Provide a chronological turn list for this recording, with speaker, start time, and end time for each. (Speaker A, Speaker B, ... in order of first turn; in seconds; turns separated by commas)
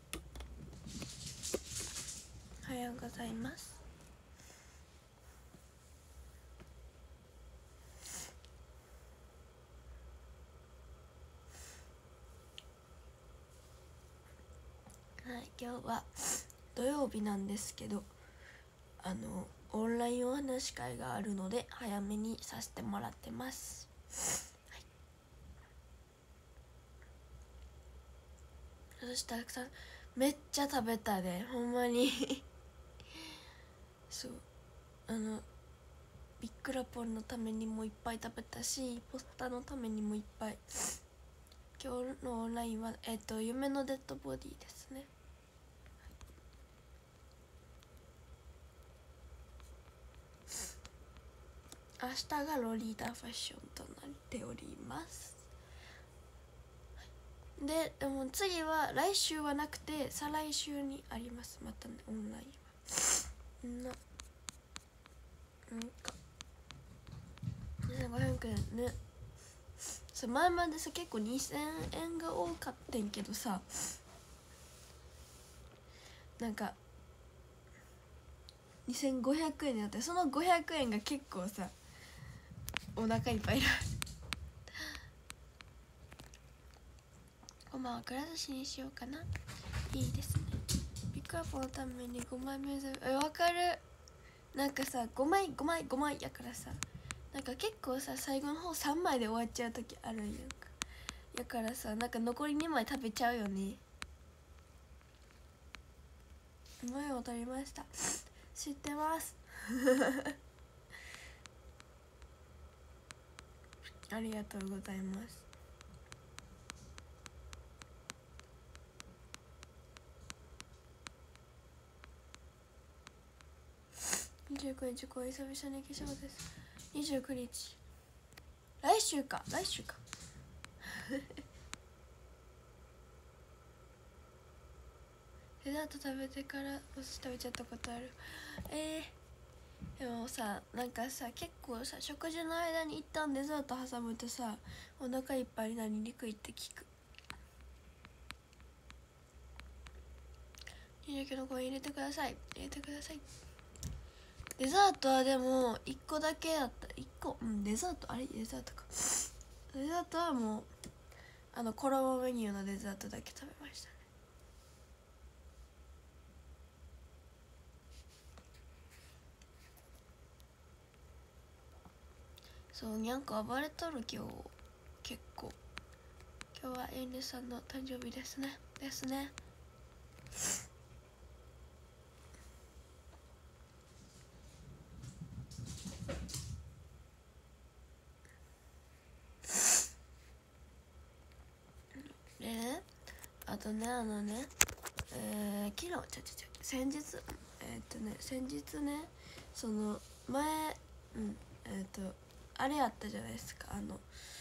Speaker A: 2.6-3.8, Speaker A: 15.2-18.1, Speaker A: 19.0-23.9, Speaker A: 29.0-32.5, Speaker A: 34.1-34.4, Speaker A: 35.1-35.5, Speaker A: 36.4-40.6, Speaker A: 41.8-45.1, Speaker A: 52.0-55.4, Speaker A: 57.6-64.0, Speaker A: 65.7-66.2, Speaker A: 67.9-69.0, Speaker A: 70.1-73.9, Speaker A: 76.4-76.8, Speaker A: 78.9-81.7, Speaker A: 83.0-83.9, Speaker A: 87.7-89.3, Speaker A: 89.9-90.6, Speaker A: 91.1-93.8, Speaker A: 94.5-96.8, Speaker A: 97.3-100.7, Speaker A: 101.3-103.8, Speaker A: 106.8-110.3, Speaker A: 114.1-115.5, Speaker A: 124.5-127.8, Speaker A: 128.8-130.0, Speaker A: 130.9-131.3, Speaker A: 135.6-139.2, Speaker A: 140.0-146.9, Speaker A: 151.0-153.2, Speaker A: 154.6-160.7, Speaker A: 161.5-164.0, Speaker A: 172.7-175.6, Speaker A: 176.5-179.3, Speaker A: 191.9-192.9, Speaker A: 193.5-194.5, Speaker A: 195.1-204.1